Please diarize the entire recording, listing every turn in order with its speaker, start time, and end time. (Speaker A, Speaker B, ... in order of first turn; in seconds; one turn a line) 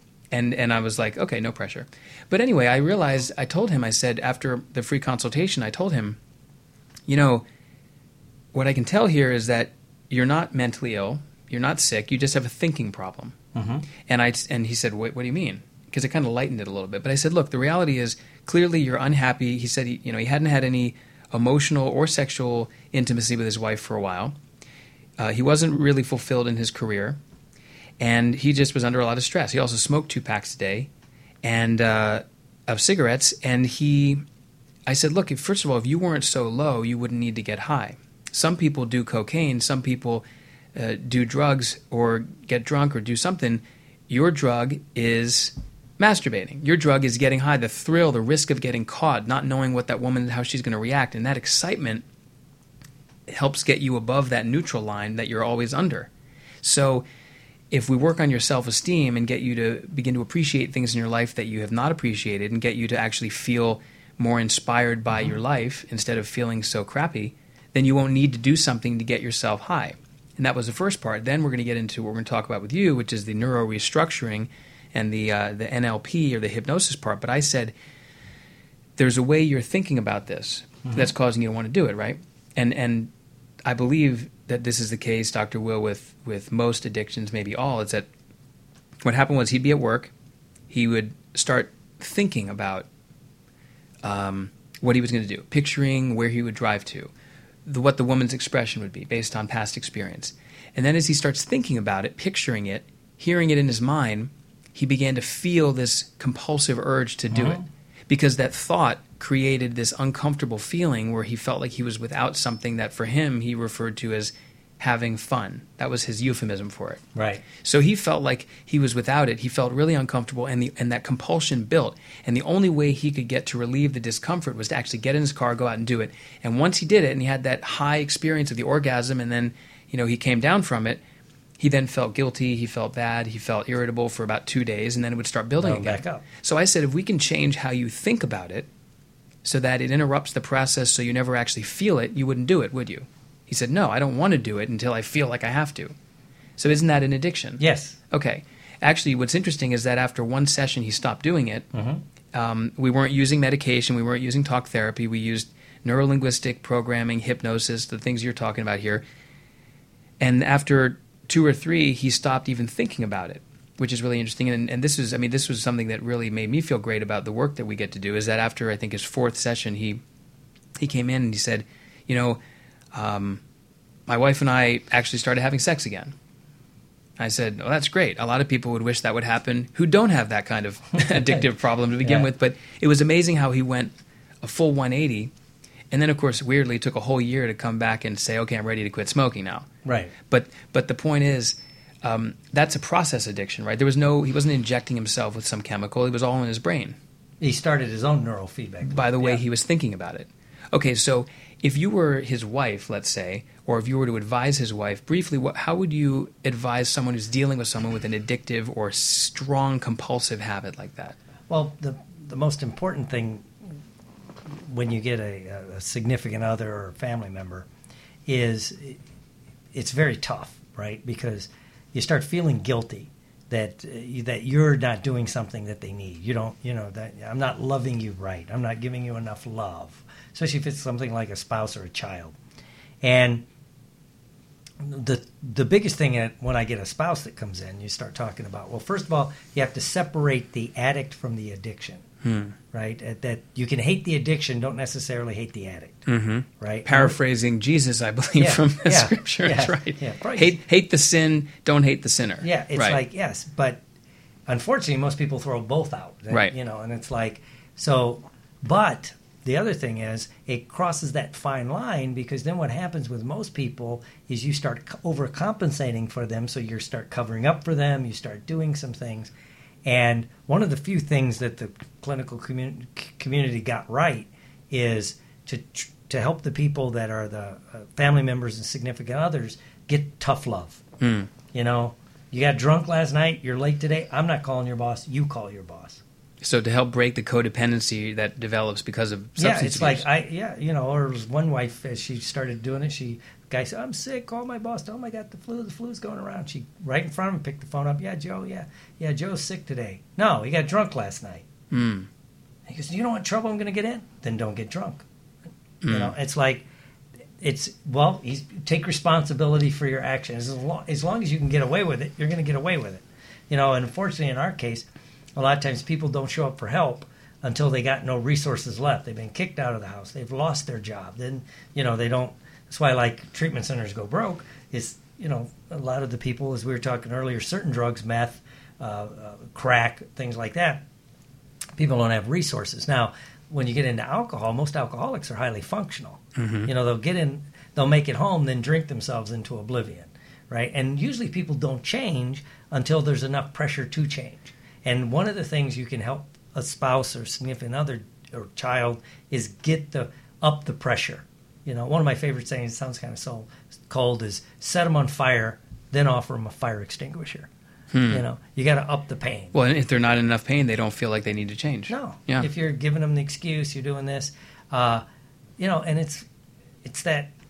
Speaker A: 0.3-6.2
Speaker A: 7.1-7.5
Speaker A: 8.5-13.4
Speaker B: 13.5-13.9
Speaker A: 14.0-24.4
Speaker A: 25.2-27.2
Speaker A: 28.0-30.9
Speaker A: 31.4-34.2
Speaker A: 34.9-52.0
Speaker A: 53.3-56.1
Speaker A: 56.6-57.1
Speaker A: 57.7-77.8
Speaker A: 79.0-83.1
Speaker A: 83.7-88.1
Speaker A: 89.0-90.1
Speaker A: 90.7-92.9
Speaker A: 94.0-97.1
Speaker A: 97.7-117.0
Speaker B: 107.3-107.7
Speaker B: 117.2-117.5
Speaker A: 117.6-131.0
Speaker A: 131.6-138.7
Speaker B: 135.6-136.2
Speaker A: 139.4-146.0
Speaker A: 146.6-151.7
Speaker B: 147.6-148.0
Speaker B: 151.7-152.0
Speaker A: 152.3-159.1
Speaker A: 160.2-170.0
Speaker A: 170.8-172.4
Speaker A: 172.9-173.4
Speaker A: 174.1-176.2
Speaker A: 177.2-185.3
Speaker B: 181.0-181.4
Speaker B: 182.0-182.3
Speaker A: 185.9-189.7
Speaker B: 189.8-190.1
Speaker A: 190.3-197.0
Speaker B: 197.4-199.4
Speaker A: 198.8-211.2
Speaker B: 211.5-213.5
Speaker B: 214.5-217.7
Speaker B: 218.3-219.0
Speaker B: 219.7-232.3
Speaker B: 233.0-233.5
Speaker B: 234.8-242.0
Speaker A: 242.2-242.6
Speaker B: 242.7-246.0
Speaker A: 246.1-253.0
Speaker B: 246.6-247.2
Speaker B: 248.4-250.6
Speaker B: 252.4-253.8
Speaker B: 254.5-269.3
Speaker B: 269.9-280.8
Speaker A: 281.0-281.3
Speaker B: 281.5-286.0
Speaker A: 286.4-290.1
Speaker B: 289.4-301.5
Speaker A: 301.7-302.1
Speaker B: 302.7-305.1
Speaker A: 305.8-306.1
Speaker B: 305.9-306.7
Speaker B: 307.4-330.8
Speaker B: 331.8-357.5
Speaker A: 336.4-336.7
Speaker A: 357.9-358.2
Speaker B: 358.1-359.6
Speaker A: 359.5-362.5
Speaker B: 361.9-365.1
Speaker B: 365.6-366.3
Speaker B: 366.9-367.3